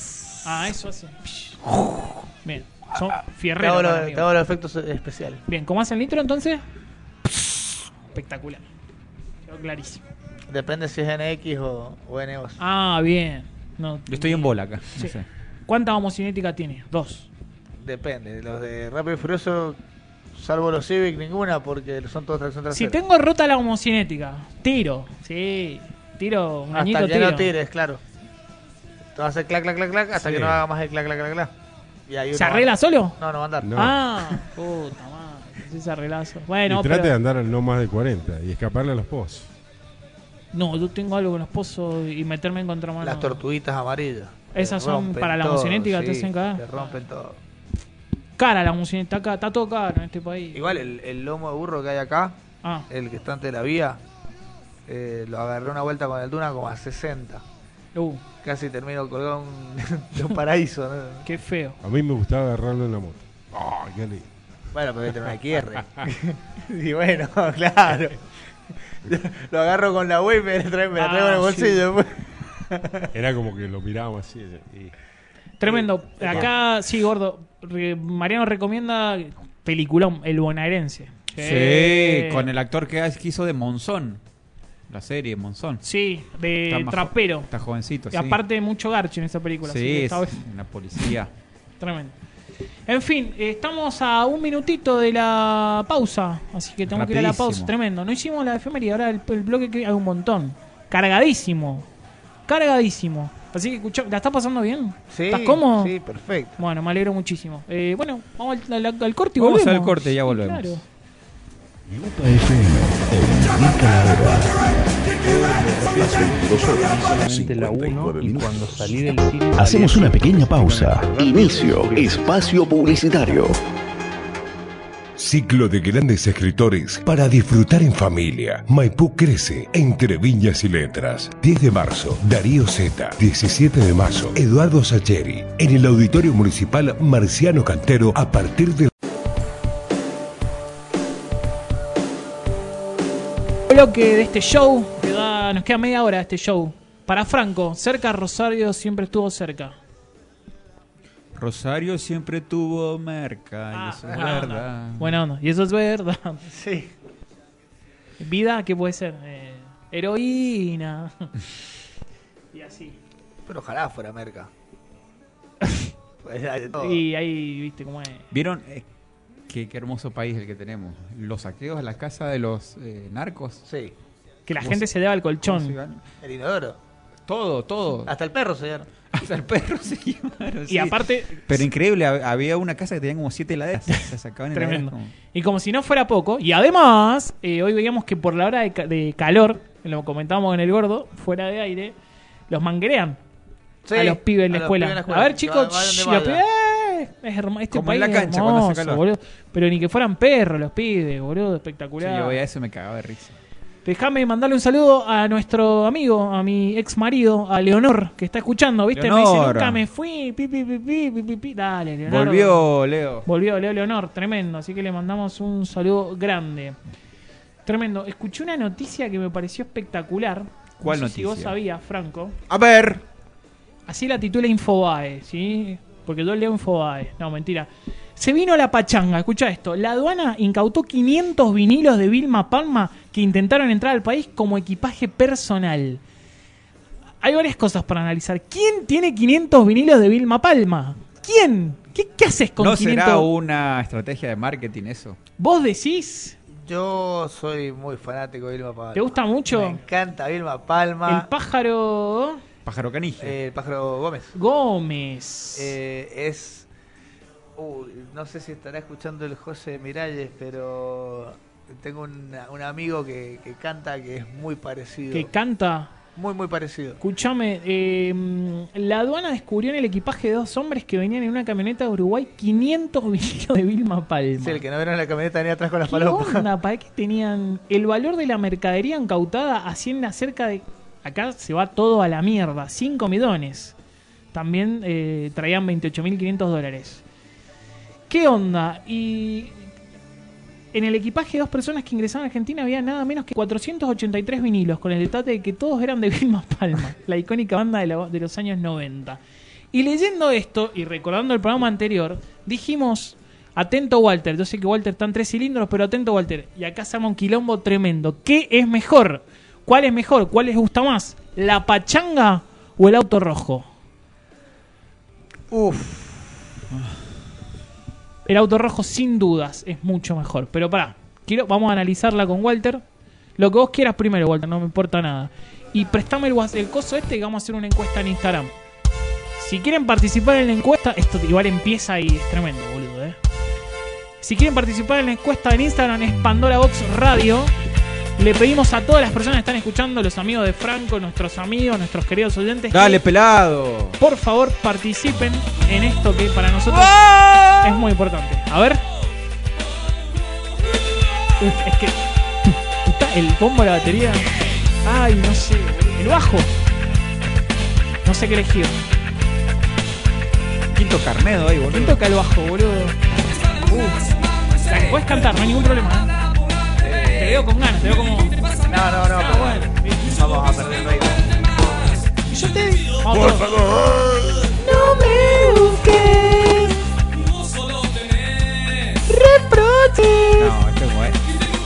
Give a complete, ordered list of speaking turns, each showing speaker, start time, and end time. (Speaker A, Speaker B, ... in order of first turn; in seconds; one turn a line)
Speaker A: 0.4-1.6
Speaker A: 2.4-4.3
Speaker B: 3.6-5.4
Speaker A: 5.5-6.6
Speaker A: 8.1-8.6
Speaker A: 9.5-10.0
Speaker B: 10.5-12.6
Speaker A: 12.6-15.2
Speaker C: 14.1-15.2
Speaker A: 15.7-17.3
Speaker B: 17.8-19.8
Speaker B: 20.4-23.0
Speaker A: 22.7-27.5
Speaker B: 26.7-28.0
Speaker B: 29.1-31.5
Speaker D: 30.1-30.6
Speaker B: 32.1-33.9
Speaker A: 32.3-33.2
Speaker D: 33.6-34.0
Speaker A: 33.7-37.1
Speaker D: 36.7-39.5
Speaker A: 40.5-43.4
Speaker B: 43.0-47.4
Speaker A: 44.5-47.0
Speaker A: 48.4-50.7
Speaker B: 50.5-54.0
Speaker B: 54.9-57.4
Speaker A: 58.0-58.2
Speaker B: 58.4-61.2
Speaker A: 61.2-61.8
Speaker D: 61.8-64.3
Speaker B: 64.7-68.2
Speaker B: 69.0-73.1
Speaker A: 71.0-71.8
Speaker D: 73.1-74.9
Speaker A: 75.6-82.5
Speaker B: 75.6-76.5
Speaker D: 76.2-76.5
Speaker C: 81.4-84.2
Speaker C: 84.9-85.8
Speaker A: 85.8-87.5
Speaker C: 86.7-88.4
Speaker A: 88.1-90.4
Speaker C: 89.6-91.3
Speaker A: 91.8-92.1
Speaker A: 92.9-101.9
Speaker C: 96.9-97.7
Speaker A: 102.5-105.9
Speaker B: 105.1-106.6
Speaker A: 106.6-110.8
Speaker C: 109.4-110.8
Speaker E: 111.9-119.0
Speaker F: 115.2-122.9
Speaker E: 119.5-123.6
Speaker G: 125.2-138.9
Speaker A: 143.7-149.8
Speaker C: 151.3-155.2
Speaker A: 153.7-156.5
Speaker B: 154.1-154.5
Speaker B: 156.5-156.9
Speaker A: 158.2-161.3
Speaker A: 162.5-163.0
Speaker B: 163.5-164.5
Speaker B: 166.2-167.0
Speaker A: 166.8-168.3
Speaker C: 168.3-168.8
Speaker C: 169.5-173.6
Speaker B: 173.7-173.9
Speaker A: 174.5-175.8
Speaker C: 174.6-174.9
Speaker C: 175.4-176.0
Speaker B: 176.2-176.8
Speaker C: 177.3-178.1
Speaker B: 178.1-178.9
Speaker C: 179.1-185.1
Speaker A: 180.7-181.6
Speaker A: 184.5-191.9
Speaker A: 192.5-193.2
Speaker B: 193.8-196.4
Speaker A: 193.9-202.4
Speaker C: 197.7-199.0
Speaker C: 202.0-203.4
Speaker A: 203.8-212.7
Speaker C: 208.9-209.8
Speaker C: 212.1-213.3
Speaker A: 213.3-216.8
Speaker A: 217.7-222.4
Speaker C: 220.8-221.6
Speaker C: 222.5-223.0
Speaker A: 223.9-236.0
Speaker A: 237.2-243.3
Speaker C: 242.6-245.2
Speaker A: 245.4-246.4
Speaker B: 246.6-251.3
Speaker A: 248.9-249.8
Speaker A: 251.1-252.4
Speaker C: 252.6-253.4
Speaker B: 253.2-254.3
Speaker A: 254.3-255.7
Speaker B: 255.6-256.7
Speaker B: 257.6-265.3
Speaker A: 265.1-265.9
Speaker B: 266.1-267.0
Speaker A: 267.0-274.6
Speaker B: 274.4-276.5
Speaker A: 275.9-283.8
Speaker A: 284.3-287.0
Speaker A: 288.1-289.6
Speaker A: 290.7-299.2
Speaker A: 299.7-313.7
Speaker B: 315.5-316.3
Speaker A: 318.3-322.8
Speaker A: 323.4-328.5
Speaker A: 329.4-333.2
Speaker A: 334.2-337.5
Speaker A: 338.2-343.0
Speaker C: 342.7-344.0
Speaker A: 344.0-348.8
Speaker C: 346.7-347.7
Speaker A: 351.4-354.3
Speaker A: 354.8-356.5
Speaker A: 358.0-358.8
Speaker C: 360.7-362.0
Speaker A: 361.7-363.0
Speaker A: 363.6-366.2
Speaker B: 366.8-367.4
Speaker A: 367.1-370.1
Speaker B: 368.7-372.0
Speaker A: 372.3-373.6
Speaker B: 373.2-374.5
Speaker A: 374.5-376.8
Speaker A: 379.1-380.6
Speaker C: 380.4-381.2